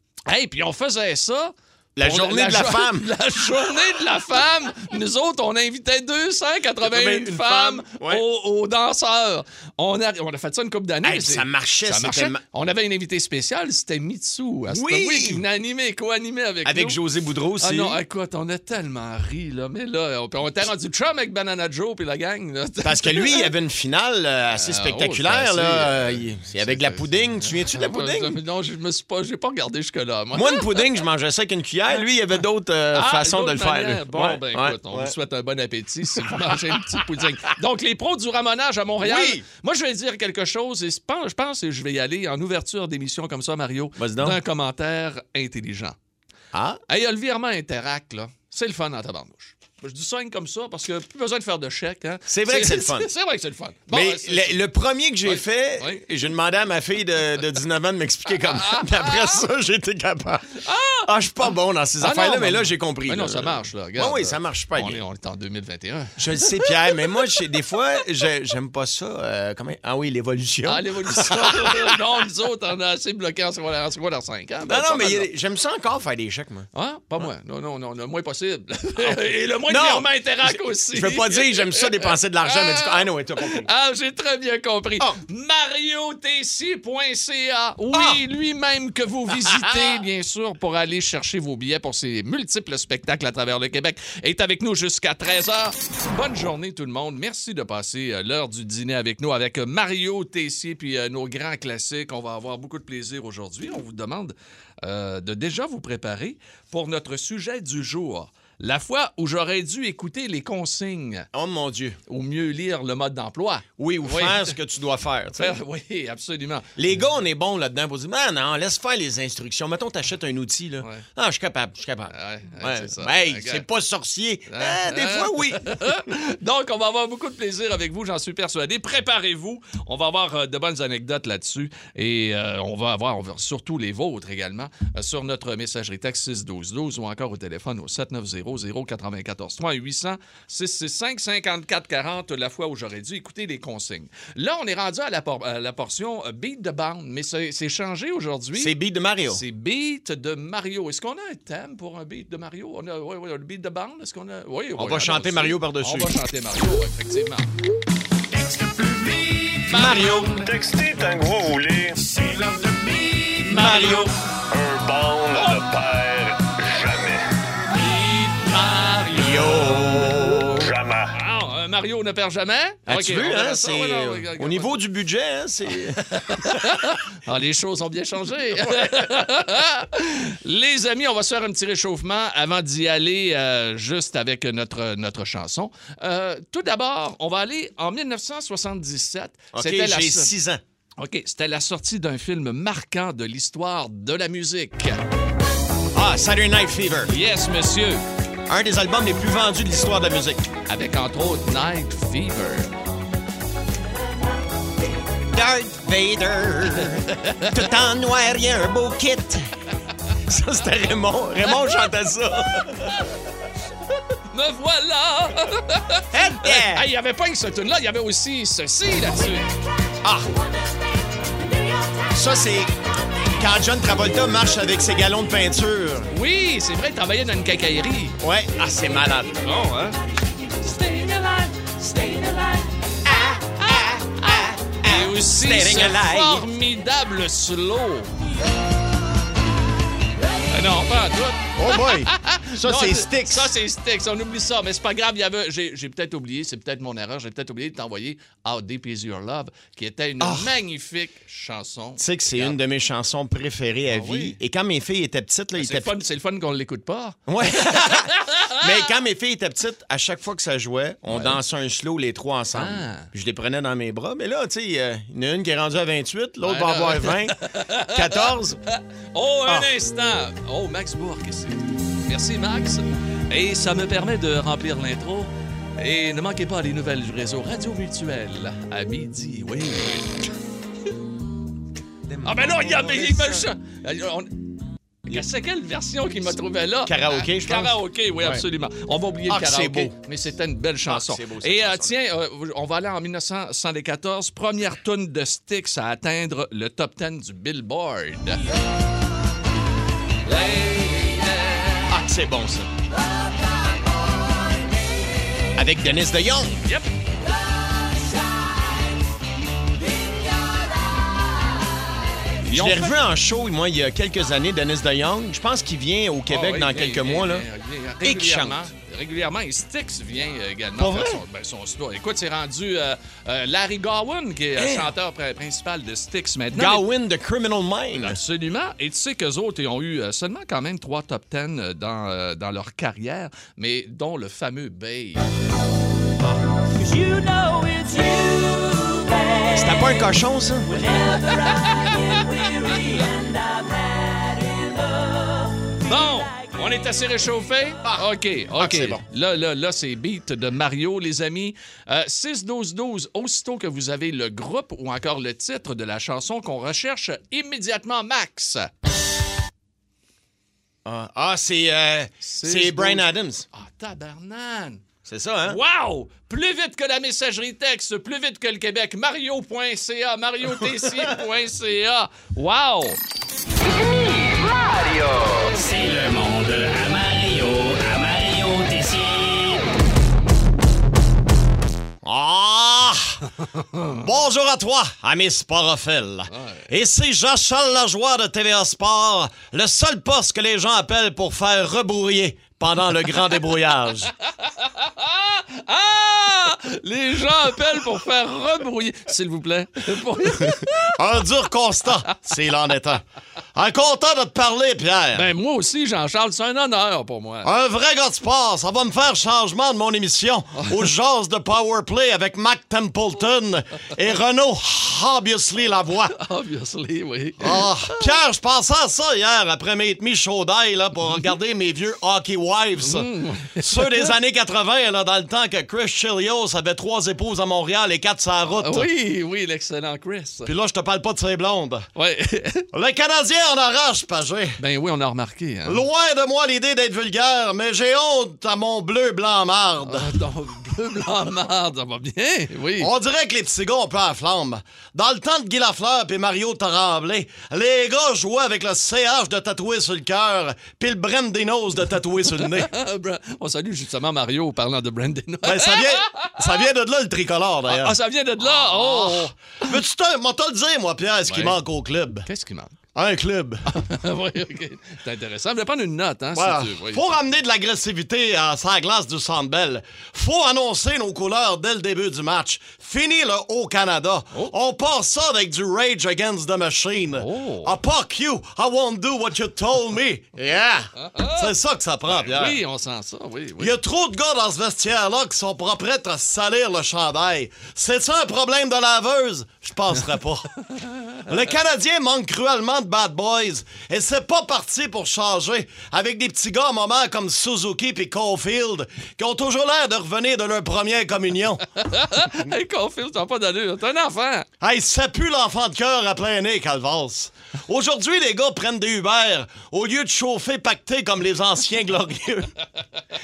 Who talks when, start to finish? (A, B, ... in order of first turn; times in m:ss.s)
0:00.3-0:17.0 A
0:02.0-0:03.1 B
0:06.8-0:08.2 B
0:11.0-0:12.4 B
0:14.7-0:15.4 B
0:16.6-0:18.0 B
0:17.6-0:23.5 A
0:22.8-0:28.4 B
0:24.6-0:30.8 A
0:30.3-0:35.1 B
0:32.9-0:46.0 A
0:36.3-0:37.0 B
0:39.0-0:39.4 B
0:44.0-0:44.4 B
0:46.5-0:46.8 B
0:46.9-0:54.6 A
0:52.3-0:53.1 B
0:53.9-1:05.0 B
0:55.2-0:56.0 A
0:58.4-0:59.4 A
1:00.6-1:01.1 A
1:02.0-1:06.7 A
1:06.2-1:12.0 B
1:10.7-1:15.3 A
1:14.7-1:16.7 B
1:16.7-1:51.3 A
1:19.0-1:23.7 B
1:27.9-1:28.2 B
1:29.3-1:30.0 B
1:51.3-1:52.0 B
1:52.1-1:54.6 A
1:53.8-1:55.6 B
1:55.4-1:56.8 A
1:56.8-2:06.0 B
2:02.1-2:03.6 A
2:04.5-2:28.7 A
2:28.6-2:29.4 B
2:29.2-2:37.5 A
2:34.8-2:36.2 B
2:39.6-2:40.4 B
2:39.7-2:40.4 A
2:40.3-2:42.0 C
2:43.1-2:44.2 A
2:43.4-2:44.1 B
2:44.5-2:47.2 C
2:47.7-2:49.8 A
2:49.1-2:50.6 B
2:50.6-2:51.1 C
2:51.2-2:54.8 A
2:52.9-2:56.1 B
2:56.1-3:10.3 A
2:58.7-2:59.0 B
3:09.5-3:10.6 B
3:11.0-3:15.0 A
3:15.9-3:17.1 B
3:17.1-3:18.1 A
3:18.5-3:20.5 B
3:20.7-3:22.7 A
3:25.3-3:29.5 B
3:27.1-3:27.6 A
3:30.3-3:33.0 B
3:31.5-3:31.8 A
3:34.3-3:39.5 A
3:36.1-3:36.9 B
3:40.0-3:40.3 B
3:42.1-3:42.7 B
3:43.4-3:46.1 B
3:46.1-3:48.2 A
3:48.2-3:49.4 B
3:49.4-3:50.0 A
3:50.6-3:52.7 A
3:53.0-3:56.4 B
3:53.7-3:58.2 A
4:00.5-4:12.6 A
4:01.6-4:03.5 B
4:10.2-4:10.5 B
4:12.0-4:16.0 B
4:13.9-4:14.4 A
4:15.6-4:18.8 A
4:17.3-4:27.4 B
4:21.1-4:21.4 A
4:22.5-4:23.1 A
4:26.4-4:40.3 A
4:27.9-4:28.6 B
4:42.1-4:43.5 B
4:42.2-4:44.5 A
4:45.1-4:58.4 A
4:46.9-4:48.4 B
4:49.3-4:50.0 B
4:50.9-4:52.0 B
5:00.2-5:02.0 A
5:01.9-5:02.7 B
5:05.6-5:06.6 B
5:06.6-5:06.9 A
5:07.8-5:08.6 D
5:10.0-5:11.1 D
5:12.4-5:13.0 A
5:12.5-5:17.5 B
5:16.3-5:26.9 A
5:18.0-5:18.6 B
5:20.8-5:21.2 B
5:24.6-5:24.9 B
5:26.6-5:28.2 B
5:27.9-5:35.3 A
5:36.8-5:40.0 D
5:39.5-5:40.7 B
5:40.7-5:46.5 D
5:41.7-5:41.9 A
5:45.9-5:58.7 A
5:47.8-5:49.0 B
6:00.8-6:03.5 B
6:02.2-6:04.8 A
6:05.1-6:05.6 B
6:05.4-6:13.0 A
6:10.8-6:11.1 B
6:15.5-6:19.6 D
6:22.0-6:23.2 B
6:23.9-6:34.1 B
6:26.3-6:26.7 A
6:34.2-6:40.9 A
6:40.9-6:43.0 B
6:43.6-6:45.3 B
6:45.1-6:47.5 A
6:47.4-6:56.2 B
6:56.1-6:58.1 A
6:57.4-7:08.9 B
7:02.8-7:04.1 A
7:08.6-7:10.5 A
7:10.4-7:11.9 B
7:12.0-7:12.7 A
7:12.7-7:14.6 B
7:14.6-7:15.8 A
7:15.7-7:20.1 B
7:19.8-7:22.9 A
7:22.8-7:32.7 B
7:32.4-7:36.7 A
7:35.4-7:42.3 B
7:37.7-7:39.7 A
7:41.3-7:41.6 A
7:42.2-7:42.8 A
7:43.0-7:43.7 B
7:43.7-7:47.0 A
7:46.4-8:02.6 B
7:57.1-7:57.7 A
8:01.0-8:01.5 A
8:02.1-8:03.7 A
8:03.6-8:10.5 B
8:11.3-8:21.6 B
8:21.8-8:24.5 A
8:24.6-8:32.5 B